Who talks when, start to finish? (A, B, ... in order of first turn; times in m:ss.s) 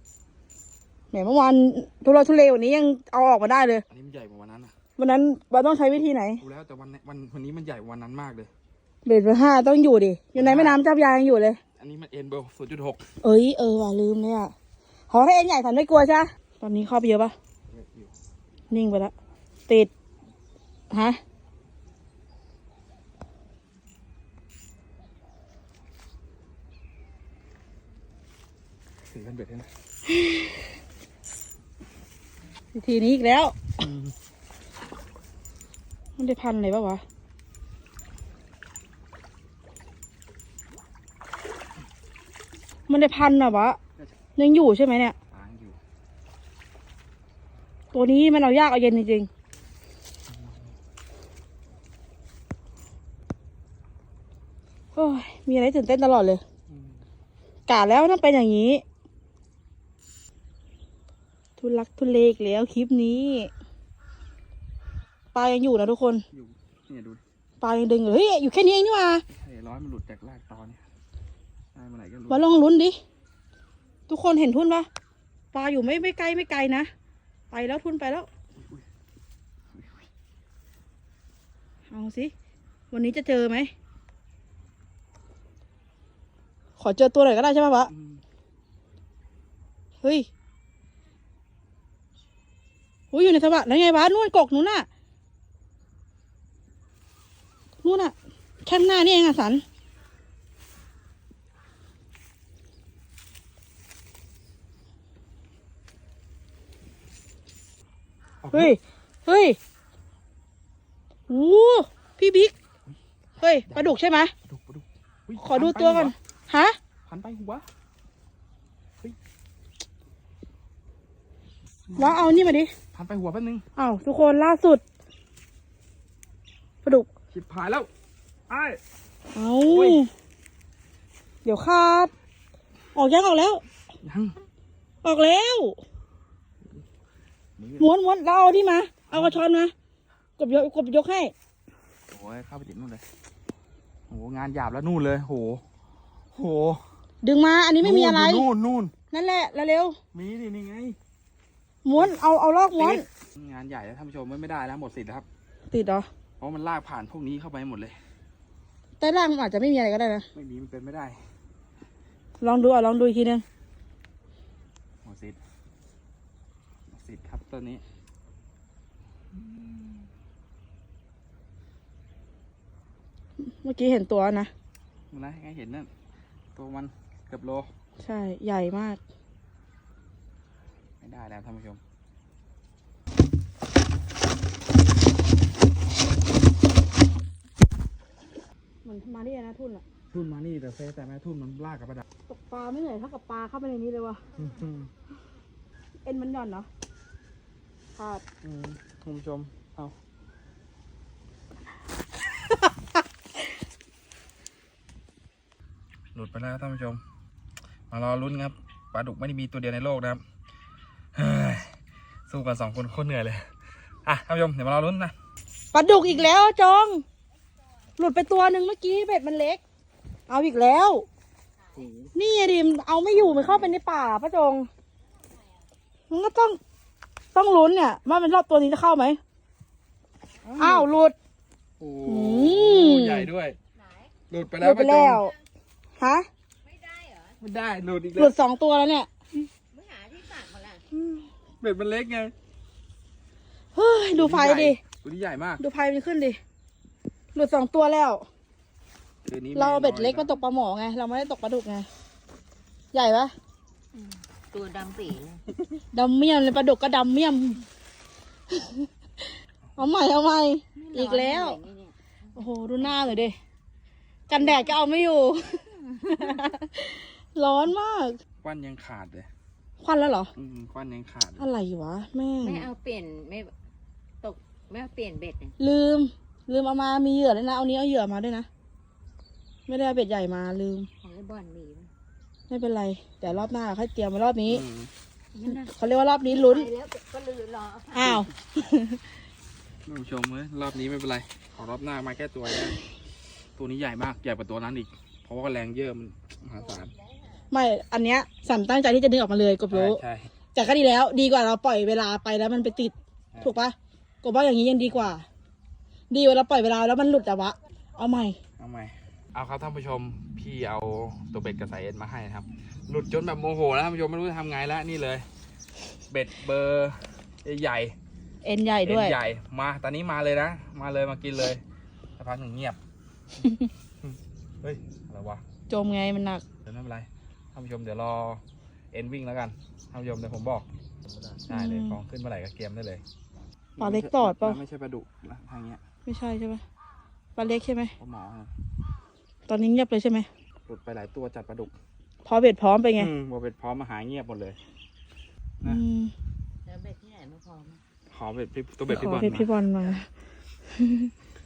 0:01.1-0:03.8 A
0:03.9-0:04.7 B
0:05.0-0:06.4 A
0:06.4-0:08.5 B
0:09.0-0:11.6 A
0:10.4-0:10.8 B
0:11.8-0:13.0 B
0:13.2-0:14.5 A
0:15.1-0:17.3 A
0:17.7-0:18.1 B
0:18.7-0:19.1 A
0:20.9-0:21.2 A
0:29.1-0:29.7 B
0:30.1-0:30.5 A
0:32.7-0:33.8 A
0:33.8-0:34.1 B
0:36.2-0:37.0 A
0:42.9-0:43.8 A
0:44.4-0:45.1 A
0:45.3-0:45.8 B
0:47.9-0:49.3 A
0:50.3-0:50.7 B
0:54.9-0:56.4 A
0:56.7-0:57.0 B
0:57.7-0:58.8 A
1:01.6-1:03.5 A
1:05.3-1:06.2 A
1:06.3-1:07.2 B
1:07.6-1:09.2 A
1:09.3-1:10.8 B
1:11.7-1:12.4 B
1:12.3-1:13.0 A
1:14.1-1:14.9 A
1:15.5-1:16.9 A
1:17.5-1:18.3 A
1:18.6-1:18.8 B
1:19.7-1:20.1 B
1:21.9-1:22.3 A
1:22.9-1:23.7 A
1:26.8-1:27.9 A
1:27.9-1:28.2 B
1:30.0-1:30.3 A
1:33.1-1:34.9 A
1:37.8-1:38.1 A
1:38.6-1:39.6 A
1:48.4-1:48.8 B
1:48.5-1:49.6 A
1:51.3-1:52.5 A
1:53.4-1:54.3 A
1:53.7-1:56.1 B
1:55.4-1:56.8 A
1:57.0-1:57.6 B
2:01.9-2:02.3 B
2:02.0-2:02.7 A
2:02.9-2:03.6 B
2:03.8-2:04.8 A
2:07.3-2:07.9 B
2:08.5-2:08.8 B
2:09.3-2:10.1 A
2:09.7-2:10.0 B
2:11.4-2:12.1 A
2:12.9-2:13.6 A
2:14.0-2:14.4 B
2:15.0-2:15.8 A
2:17.6-2:17.9 B
2:17.8-2:19.7 A
2:19.1-2:19.4 B
2:20.4-2:21.3 A
2:22.1-2:23.0 B
2:24.1-2:25.6 B
2:26.3-2:26.8 B
2:27.2-2:28.4 A
2:27.8-2:28.9 B
2:29.1-2:30.0 A
2:30.1-2:31.0 B
2:31.8-2:33.0 A
2:32.8-2:35.2 B
2:35.7-2:36.1 A
2:36.4-2:38.0 B
2:39.0-2:40.3 A
2:40.3-2:41.2 B
2:42.4-2:43.4 A
2:45.0-2:45.4 B
2:46.9-2:47.8 B
2:49.3-2:50.1 B
2:53.4-2:54.5 A
2:55.1-2:55.9 B
2:56.5-2:57.7 B
2:58.0-2:59.0 A
3:01.0-3:01.8 B
3:08.8-3:09.8 A
3:10.1-3:12.0 B
3:12.3-3:14.2 A
3:14.4-3:14.9 B
3:16.0-3:16.7 A
3:18.0-3:18.2 A
3:18.4-3:19.9 B
3:26.1-3:27.0 B
3:27.9-3:30.2 B
3:31.1-3:31.8 B
3:32.3-3:33.5 B
3:34.0-3:35.1 B
3:35.7-3:37.0 A
3:38.0-3:39.6 A
3:40.3-3:41.0 A
3:41.6-3:41.8 C
3:41.7-3:42.1 B
3:42.1-3:44.7 A
3:43.1-3:43.8 B
3:45.0-3:45.7 C
3:46.1-3:46.6 A
3:47.3-3:49.2 A
3:50.4-3:50.9 B
3:50.6-3:51.1 A
3:51.8-3:53.6 B
3:52.0-3:53.3 A
3:53.7-3:54.2 C
3:54.3-3:55.2 B
3:54.6-3:55.3 A
3:56.0-3:56.3 A
3:56.6-3:57.4 C
3:57.4-3:58.3 B
3:58.2-3:59.1 A
3:59.7-4:00.8 C
4:00.9-4:02.3 B
4:03.7-4:04.8 A
4:04.2-4:05.6 B
4:05.6-4:06.4 A
4:07.3-4:08.2 A
4:09.2-4:10.3 B
4:09.5-4:11.9 A
4:12.9-4:13.3 A
4:13.9-4:15.5 C
4:15.9-4:17.6 A
4:18.5-4:21.6 A
4:20.8-4:23.3 C
4:22.3-4:23.4 A
4:24.3-4:28.2 A
4:24.4-4:24.8 C
4:25.6-4:26.5 C
4:28.4-4:29.3 B
4:29.8-4:30.3 A
4:30.4-4:31.5 B
4:31.4-4:32.7 A
4:32.4-4:33.5 C
4:34.2-4:35.6 C
4:35.6-4:38.5 A
4:39.7-4:40.9 A
4:41.0-4:41.9 C
4:42.5-4:44.6 A
4:44.5-4:44.9 B
4:45.3-4:48.2 C
4:45.5-4:46.7 A
4:47.9-4:49.0 A
4:49.8-4:52.8 B
4:53.6-4:56.9 B
4:56.6-4:57.4 C
4:57.5-5:00.0 A
4:59.7-5:00.3 B
5:00.5-5:05.2 A
5:04.8-5:05.1 B
5:06.1-5:08.4 A
5:08.6-5:15.2 B
5:16.1-5:18.0 B
5:18.4-5:19.2 A
5:18.8-5:21.6 B
5:22.2-5:22.8 B
5:24.0-5:25.4 B
5:25.7-5:26.4 A
5:26.6-5:30.7 B
5:31.0-5:31.4 C
5:31.4-5:33.0 B
5:31.5-5:32.0 A
5:33.8-5:35.8 B
5:33.8-5:34.6 A
5:36.0-5:36.6 A
5:37.4-5:37.9 A
5:38.0-5:38.5 B
5:39.5-5:40.3 A
5:40.6-5:41.7 B
5:42.2-5:43.1 A
5:43.0-5:44.6 B
5:45.6-5:46.1 A
5:46.6-5:47.8 C
5:48.1-5:49.5 B
5:48.9-5:50.1 A
5:50.7-5:51.1 A